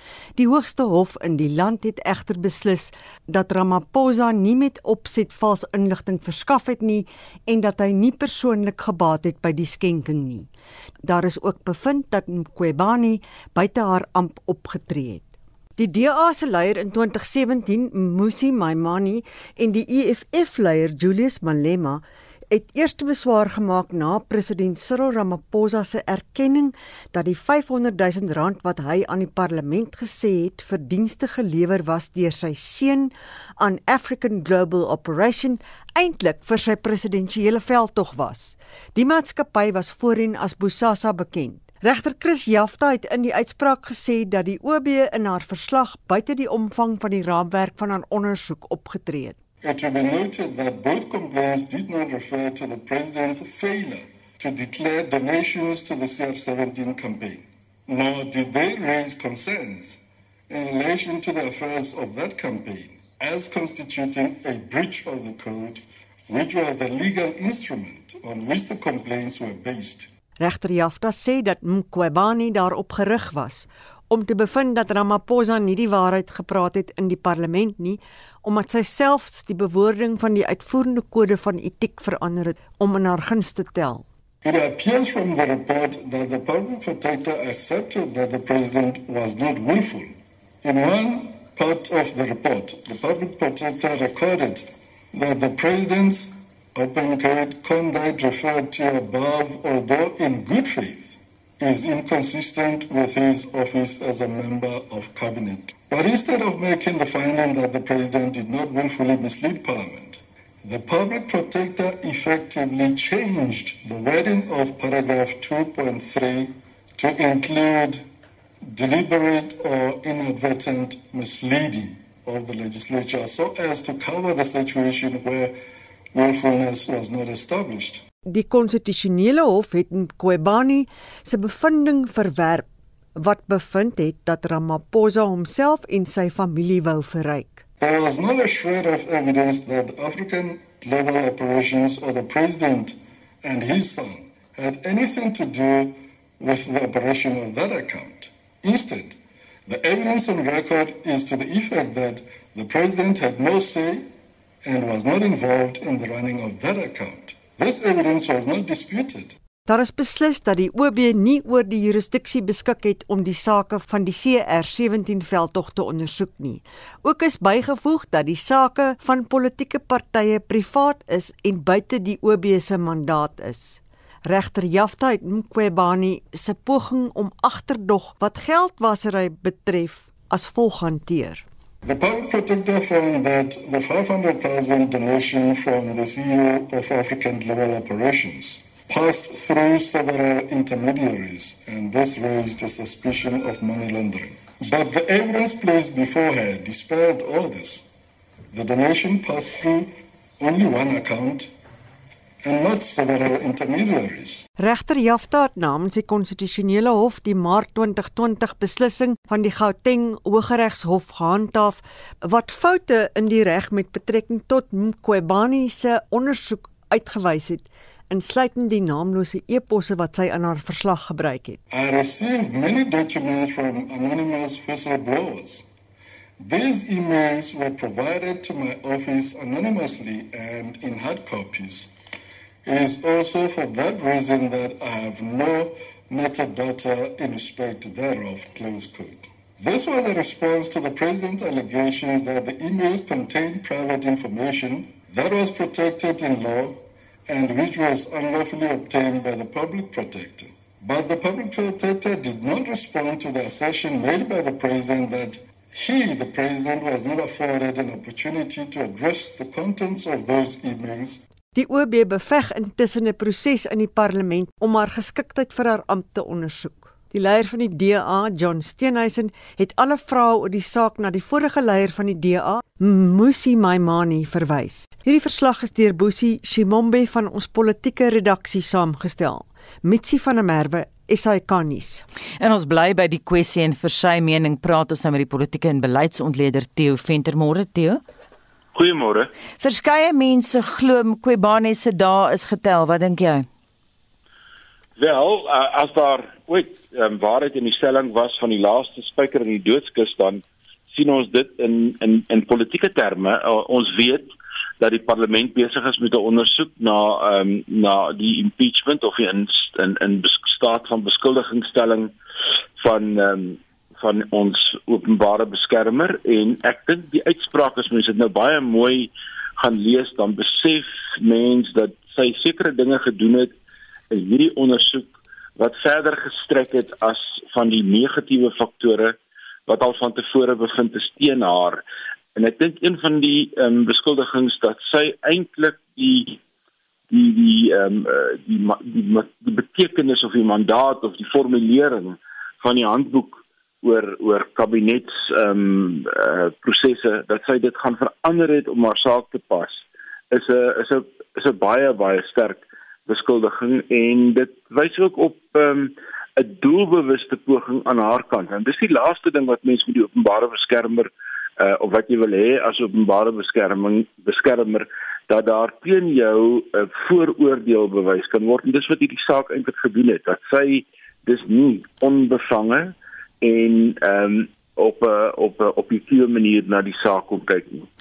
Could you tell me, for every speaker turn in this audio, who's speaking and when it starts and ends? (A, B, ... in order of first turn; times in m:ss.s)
0:00.4-0:10.5 A
0:11.0-0:49.4 A
0:49.6-1:10.1 B
1:10.4-1:24.1 A
1:24.4-1:30.1 B
1:30.6-1:58.0 B
1:58.6-2:05.5 B
2:06.1-2:08.0 B
2:08.2-2:17.6 A
2:17.8-2:34.1 B
2:34.6-2:39.4 B
2:39.6-3:01.4 A
3:01.8-3:17.8 B
3:18.5-3:21.5 B
3:22.4-3:24.4 B
3:24.6-3:41.6 A
3:41.7-3:45.7 B
3:46.4-3:51.9 B
3:52.6-4:21.2 B
4:21.5-4:42.0 A
4:42.4-4:48.0 C
4:48.7-4:49.3 D
4:49.6-4:53.4 C
4:55.0-5:12.1 D
5:12.8-5:23.5 D
5:24.1-5:31.8 D
5:32.4-5:36.4 D
5:37.1-6:17.9 D